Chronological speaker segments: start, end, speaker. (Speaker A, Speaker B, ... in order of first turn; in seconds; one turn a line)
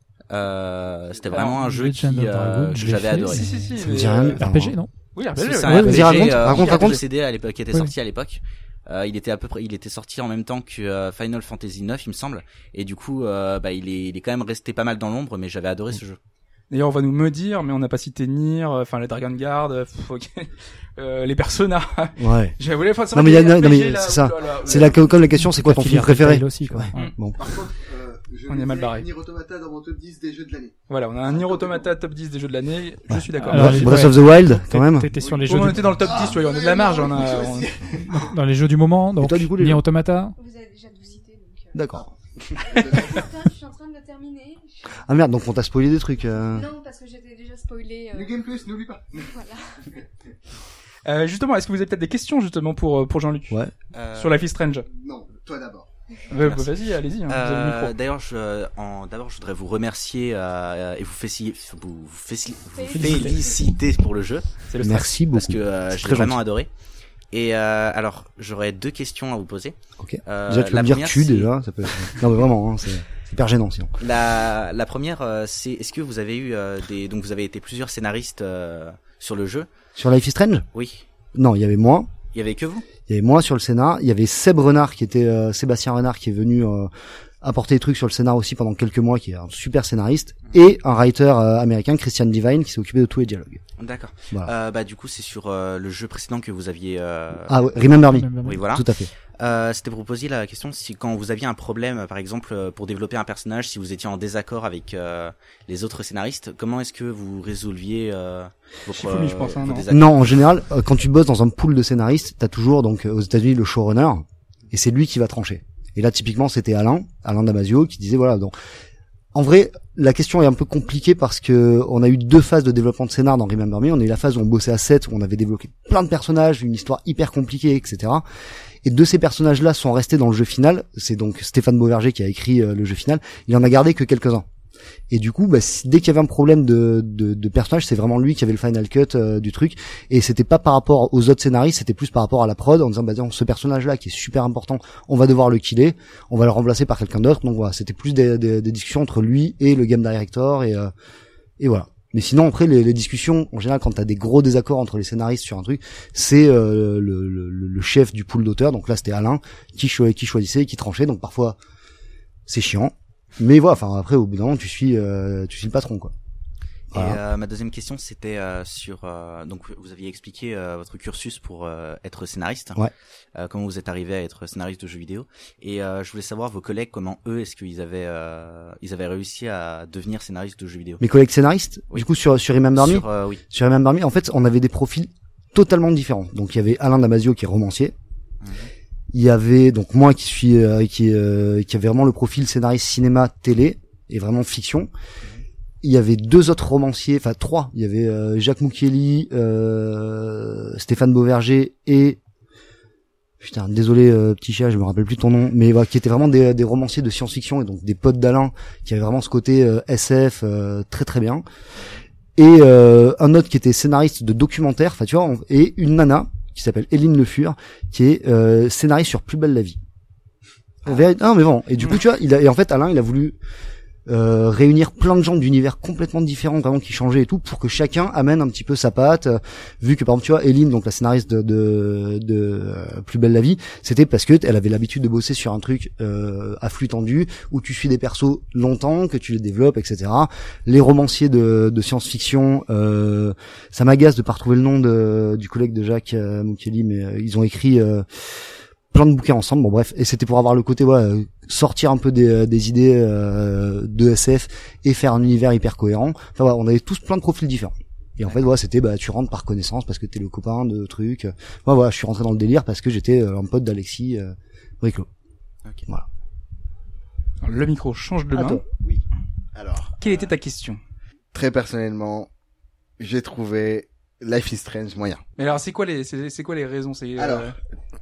Speaker A: 0.3-3.4
Speaker B: 1.3-1.6
Speaker C: 1.5-3.8
Speaker B: 3.3-4.4
Speaker D: 3.8-4.8
Speaker C: 4.3-6.3
Speaker B: 5.1-6.9
Speaker A: 5.4-16.2
Speaker D: 5.7-7.0
Speaker B: 16.7-25.0
Speaker D: 22.2-22.5
Speaker D: 23.1-27.5
Speaker C: 25.4-27.1
Speaker E: 27.4-31.9
Speaker B: 28.5-29.1
Speaker B: 30.9-34.1
Speaker D: 33.1-35.1
Speaker C: 33.3-36.3
Speaker E: 35.2-38.3
Speaker B: 35.5-37.7
Speaker C: 37.9-40.3
Speaker D: 39.2-39.8
Speaker F: 40.4-42.0
Speaker D: 41.7-42.0
Speaker F: 42.6-45.0
Speaker E: 42.6-43.3
Speaker D: 45.0-46.7
Speaker F: 46.4-48.4
Speaker E: 48.1-49.3
Speaker F: 49.2-49.6
Speaker B: 51.0-53.6
Speaker A: 53.9-54.4
Speaker B: 54.1-54.8
Speaker E: 55.0-55.9
Speaker B: 56.3-57.9
Speaker A: 56.3-56.7
Speaker A: 57.3-64.5
Speaker F: 62.7-63.6
Speaker C: 62.9-63.3
Speaker B: 63.0-63.3
Speaker B: 64.7-65.1
Speaker D: 64.8-66.4
Speaker A: 65.3-66.7
Speaker A: 67.3-69.7
Speaker D: 70.0-73.9
Speaker A: 70.2-71.5
Speaker A: 74.0-79.7
Speaker D: 80.0-80.7
Speaker A: 80.7-81.0
Speaker D: 81.3-82.1
Speaker A: 82.3-82.8
Speaker D: 83.1-86.9
Speaker D: 87.4-93.6
Speaker A: 93.8-97.6
Speaker D: 97.5-99.1
Speaker C: 98.0-98.6
Speaker A: 98.4-98.8
Speaker A: 99.4-110.1
Speaker B: 108.9-109.8
Speaker D: 109.9-118.5
Speaker D: 119.3-128.2
Speaker D: 128.8-134.4
Speaker D: 135.1-150.9
Speaker D: 151.6-161.6
Speaker D: 162.5-166.1
Speaker A: 166.9-172.8
Speaker D: 166.9-167.2
Speaker A: 173.3-181.0
Speaker D: 181.0-187.9
Speaker A: 182.7-183.4
Speaker A: 188.4-188.7
Speaker D: 189.1-194.9
Speaker D: 195.8-202.2
Speaker D: 203.4-211.4
Speaker D: 212.4-219.8
Speaker D: 220.8-223.4
Speaker D: 224.1-248.1
Speaker D: 248.9-265.1
Speaker B: 267.4-268.6
Speaker D: 268.3-268.6
Speaker E: 269.5-270.3
Speaker B: 270.0-270.8
Speaker E: 271.3-272.3
Speaker E: 273.0-275.2
Speaker B: 275.4-277.5
Speaker E: 277.2-277.5